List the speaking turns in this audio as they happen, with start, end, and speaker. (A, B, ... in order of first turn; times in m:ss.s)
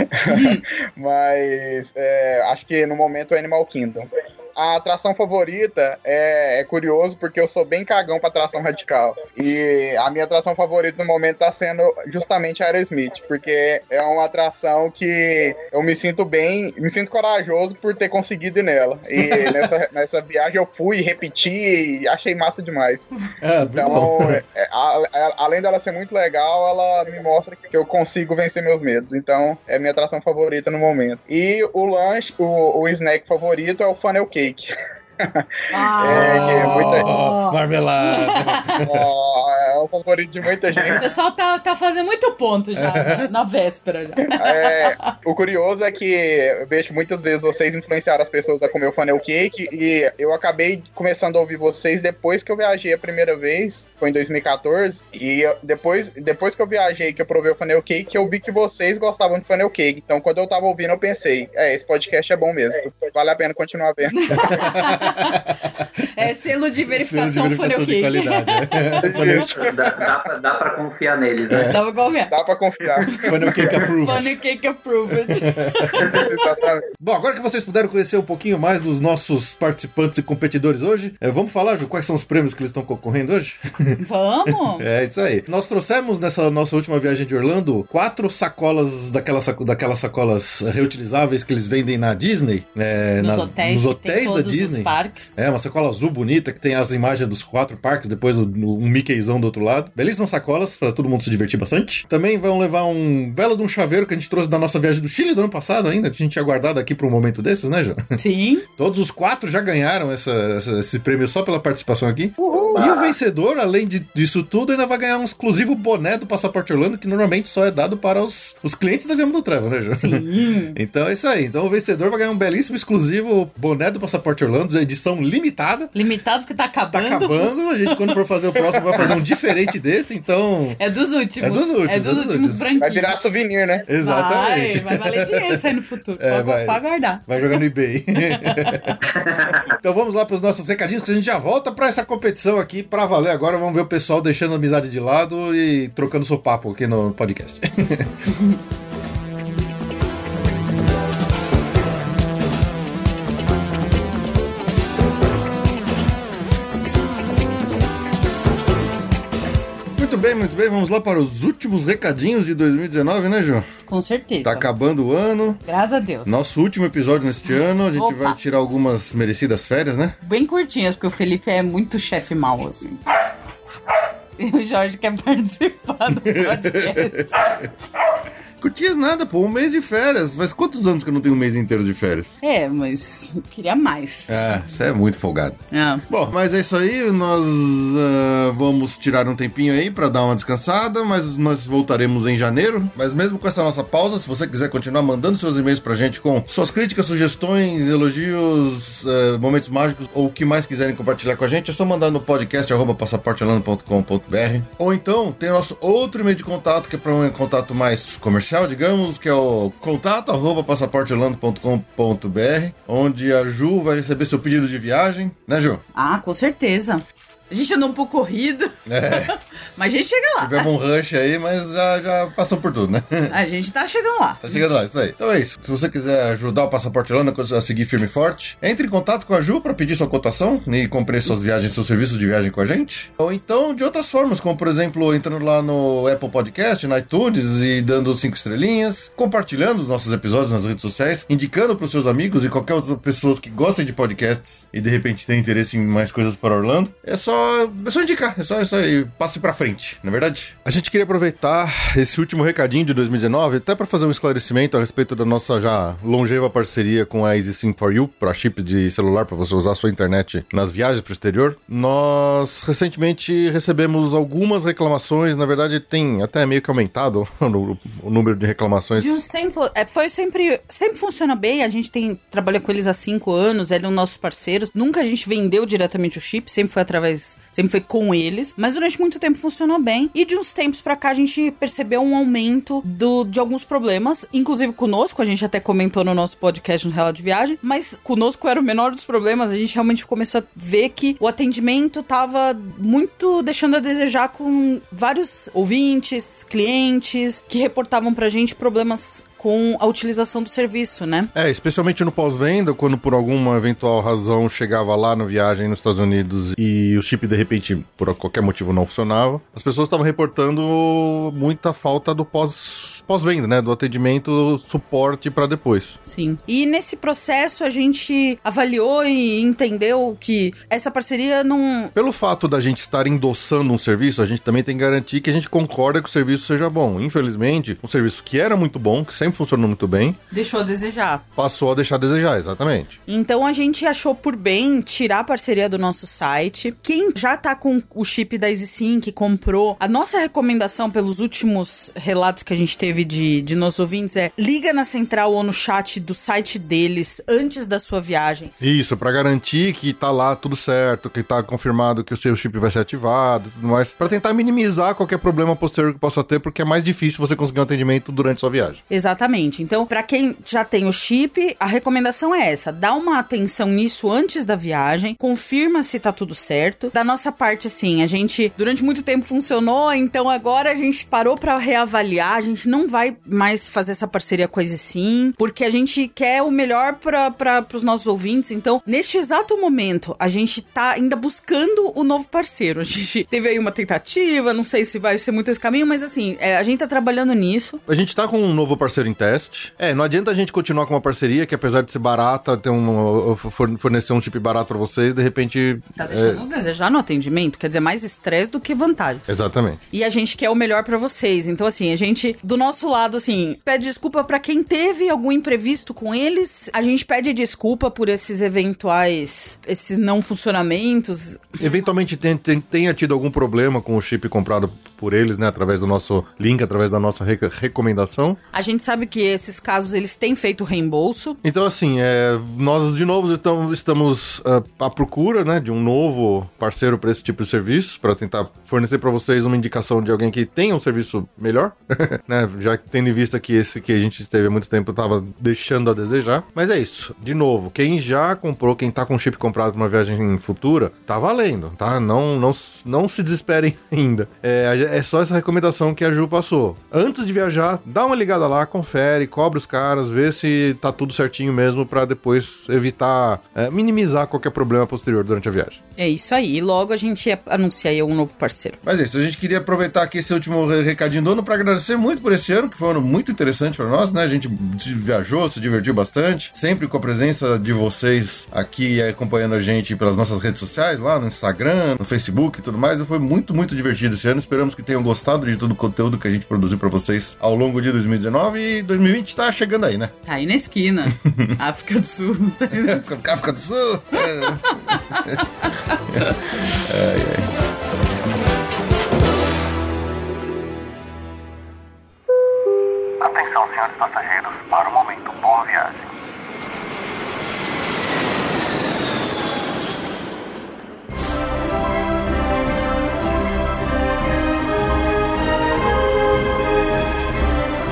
0:00.1-0:23.1 A
0:00.3-0:00.6 B
0:19.2-0:19.7 C
0:23.4-0:24.4 C
0:23.6-0:34.7 A
0:35.2-0:37.1 A
0:35.7-0:38.8 B
0:36.0-0:39.1 C
0:38.8-0:41.1 A
0:41.0-0:45.1 B
0:42.8-0:43.3 C
0:44.3-1:04.6 A
1:04.1-1:05.5 B
1:04.4-1:05.9 C
1:06.2-1:09.3 B
1:06.9-1:09.5 C
1:09.0-1:10.0 A
1:09.4-1:11.7 D
1:11.5-1:11.8 C
1:11.6-1:12.3 B
1:12.3-1:13.2 A
1:13.1-1:16.4 B
1:13.2-1:14.4 C
1:15.1-1:16.2 C
1:16.1-1:16.8 A
1:17.0-1:24.0 C
1:24.0-1:24.8 B
1:24.5-1:48.0 C
1:33.2-1:35.4 B
1:48.2-1:48.7 B
1:48.8-2:05.9 C
1:52.5-1:52.8 A
1:52.5-1:52.9 B
2:00.0-2:00.8 B
2:05.9-2:09.2 B
2:06.9-2:10.8 C
2:10.8-2:13.1 B
2:11.4-2:12.6 C
2:12.8-2:13.9 A
2:13.9-2:19.0 C
2:14.0-2:17.6 B
2:18.2-2:19.0 B
2:19.1-2:19.7 D
2:19.8-2:28.2 C
2:28.3-2:28.6 B
2:39.9-2:43.7 C
2:43.9-2:44.7 B
2:44.4-2:45.6 C
2:45.7-2:46.4 B
2:46.2-2:50.2 C
2:48.0-2:48.4 B
2:50.2-2:53.0 B
2:54.4-2:57.6 B
2:56.1-2:57.7 C
2:58.6-3:02.4 C
3:02.4-3:04.5 B
3:04.3-3:35.8 C
3:05.7-3:06.0 B
3:36.0-3:40.7 B
3:38.9-3:39.3 C
3:40.4-3:43.4 C
3:43.3-3:44.6 B
3:44.4-4:29.2 C
4:29.0-5:01.3 B
5:01.3-5:16.0 C
5:16.0-5:21.9 B
5:22.0-5:30.2 C
5:30.3-5:31.2 B
5:31.4-5:33.0 C
5:33.1-5:48.5 B
5:48.6-5:58.8 C
5:58.9-6:27.8 B
6:27.9-6:36.4 C
6:36.0-6:39.2 B
6:39.3-6:39.8 C
6:39.9-6:51.8 B
6:51.6-6:58.4 C
6:58.5-7:01.4 B
7:01.4-7:35.8 C
7:36.0-7:38.8 B
7:38.8-8:00.1 C
8:00.3-8:03.1 B
8:01.2-8:01.6 C
8:02.7-8:05.4 C
8:04.2-8:06.4 B
8:06.1-8:07.5 C
8:13.2-8:15.9 E